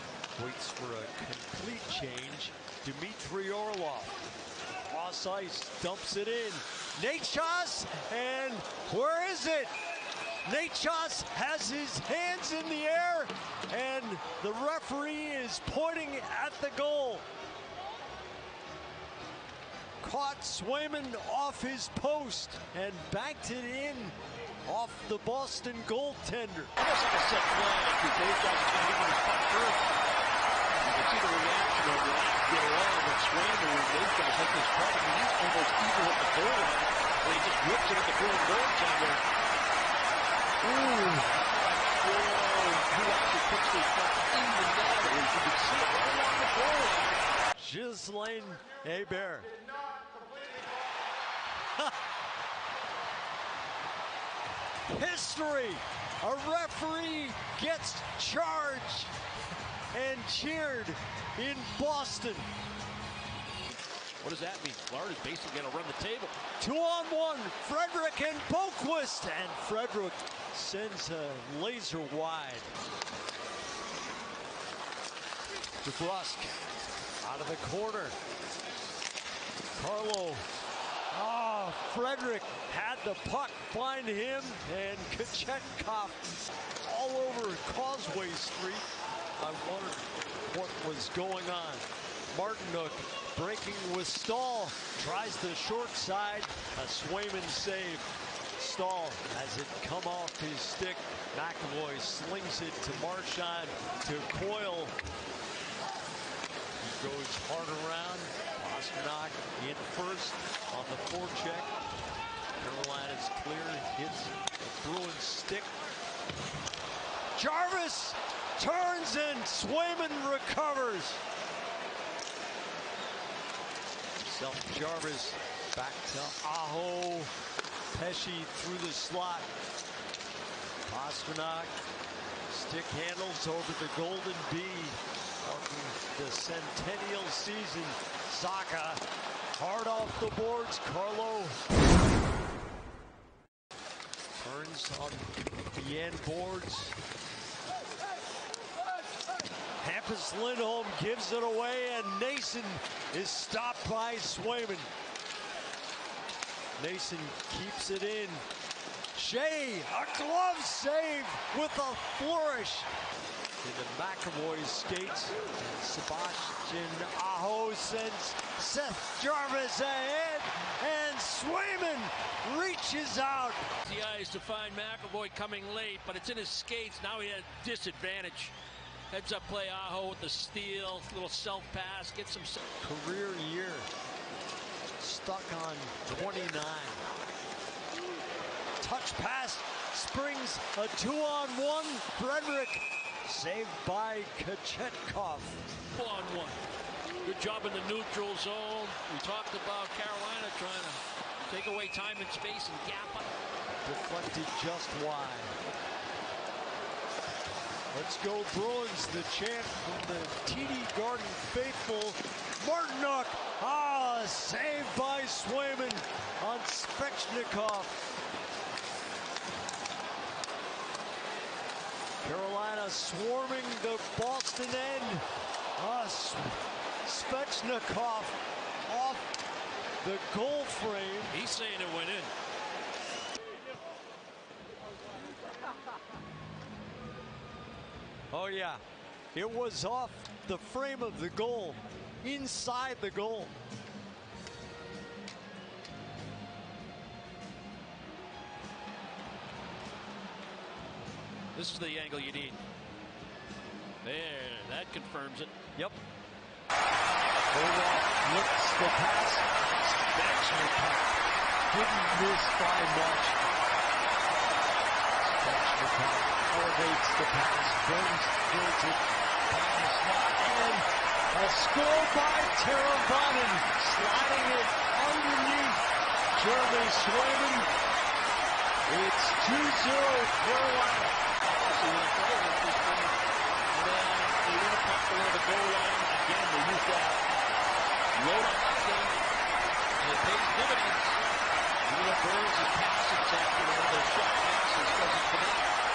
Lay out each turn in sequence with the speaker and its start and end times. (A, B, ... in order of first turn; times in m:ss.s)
0:00.4-0:04.2 A
0:04.9-0:09.7 A
0:10.4-0:17.2 A
0:20.0-0:24.1 A
0:24.6-0:26.7 A
0:26.8-0:29.8 B
0:30.8-0:39.2 B
0:40.6-0:41.2 A
0:41.2-0:47.2 B
0:47.6-0:49.6 A
0:54.9-0:59.1 A
0:59.9-1:02.5 A
1:04.2-1:06.4 B
1:06.6-1:12.7 A
1:15.8-1:16.5 A
1:17.2-1:18.1 A
1:19.8-1:20.4 A
1:21.1-1:26.2 A
1:26.8-1:44.9 A
1:46.8-1:51.7 A
1:52.6-1:55.8 A
1:57.3-2:01.2 A
2:04.2-2:07.3 A
2:07.9-2:09.5 A
2:10.8-2:11.7 A
2:12.5-2:19.0 A
2:19.6-2:21.6 A
2:24.4-2:27.0 A
2:29.8-2:34.9 A
2:36.8-2:38.4 A
2:39.1-2:42.9 A
2:43.6-2:53.6 A
2:53.8-2:58.5 B
2:59.1-3:02.6 B
3:02.8-3:03.9 A
3:05.0-3:07.0 A
3:08.8-3:15.6 A
3:15.9-3:16.6 B
3:17.2-3:23.2 B
3:23.8-3:25.6 A
3:27.9-3:38.0 A
3:42.2-3:45.2 A
3:45.8-3:49.3 A
3:50.0-3:51.4 A
3:51.3-3:52.3 B
3:58.3-3:58.8 A
3:59.3-4:03.5 A
4:11.5-4:12.6 B
4:14.0-4:15.6 B
4:17.5-4:21.2 A
4:21.7-4:23.4 A
4:25.2-4:35.8 A
4:36.3-4:37.7 A
4:38.9-4:41.1 A
4:41.5-4:43.2 B
4:43.7-4:47.2 B
4:48.1-4:49.2 B
4:50.0-4:51.2 B
4:51.8-4:55.7 B